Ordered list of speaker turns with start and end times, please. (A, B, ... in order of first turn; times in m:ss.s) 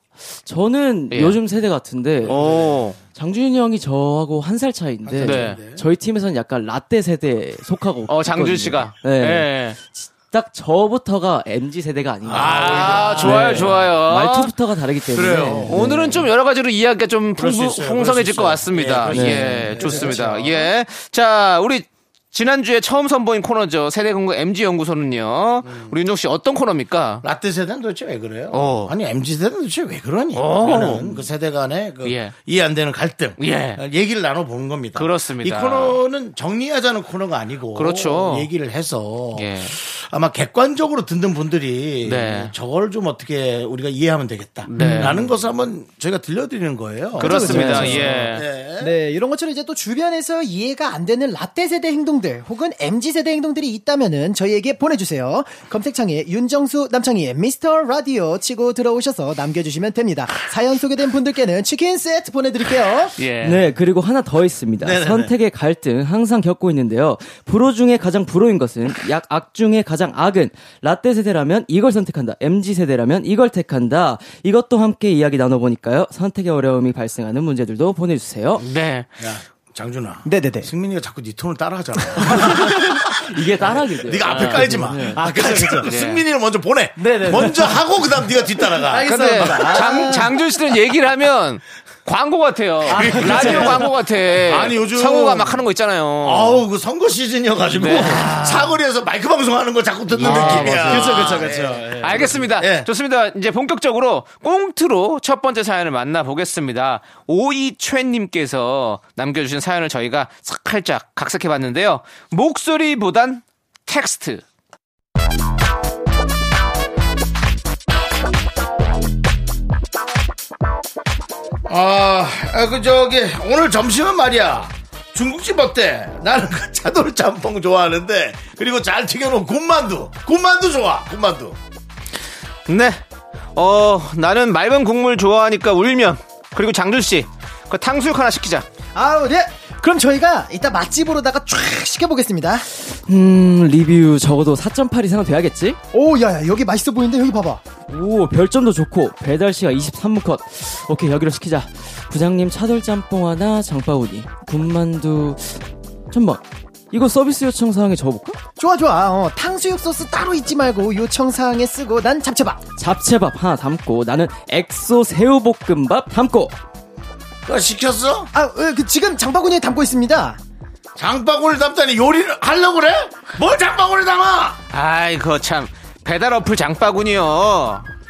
0:00.4-0:02.6 A
0:01.1-0:01.4 B
0:02.2-0:03.0 B
0:02.3-0:02.9 C
0:03.1-0:16.3 A
0:05.0-0:05.8 C
0:05.2-0:05.6 B
0:08.1-0:09.8 B
0:12.3-0:13.8 C
0:12.3-0:14.5 B
0:15.1-0:15.9 C
0:15.6-0:27.2 B
0:17.4-0:20.7 C
0:19.1-0:20.2 A
0:25.6-0:26.0 C
0:27.2-0:48.9 C
0:28.5-0:28.9 B
0:30.4-0:31.2 B
0:32.0-0:32.3 B
0:33.4-0:33.8 B
0:35.0-0:36.0 B
0:37.8-0:38.5 B
0:39.4-0:39.8 B
0:42.0-0:42.5 B
0:44.7-0:45.2 B
0:44.8-0:45.2 D
0:47.2-0:48.5 B
0:47.2-1:03.2 D
1:03.2-1:03.6 B
1:03.4-1:18.6 A
1:04.8-1:05.3 C
1:18.6-1:19.1 B
1:19.2-1:30.1 C
1:20.2-1:20.7 D
1:22.3-1:25.2 A
1:24.3-1:24.7 B
1:25.1-1:25.9 D
1:25.8-1:26.2 B
1:27.0-1:27.8 D
1:28.7-1:30.4 D
1:29.0-1:36.6 B
1:32.9-1:33.9 D
1:32.9-1:33.9 C
1:34.4-1:35.6 C
1:36.2-1:42.9 C
1:37.8-1:38.3 B
1:38.0-1:38.8 D
1:40.1-1:54.4 B
1:40.2-1:42.3 D
2:01.7-2:11.6 C
2:12.7-2:13.0 B
2:13.6-2:18.7 B
2:19.0-2:22.7 D
2:22.9-2:25.8 A
2:25.9-2:27.7 D
2:27.8-2:38.4 A
2:38.6-2:42.6 D
2:42.8-2:46.6 A
2:47.5-2:48.3 C
2:48.3-2:50.4 D
2:51.0-2:54.6 C
2:54.7-2:57.9 B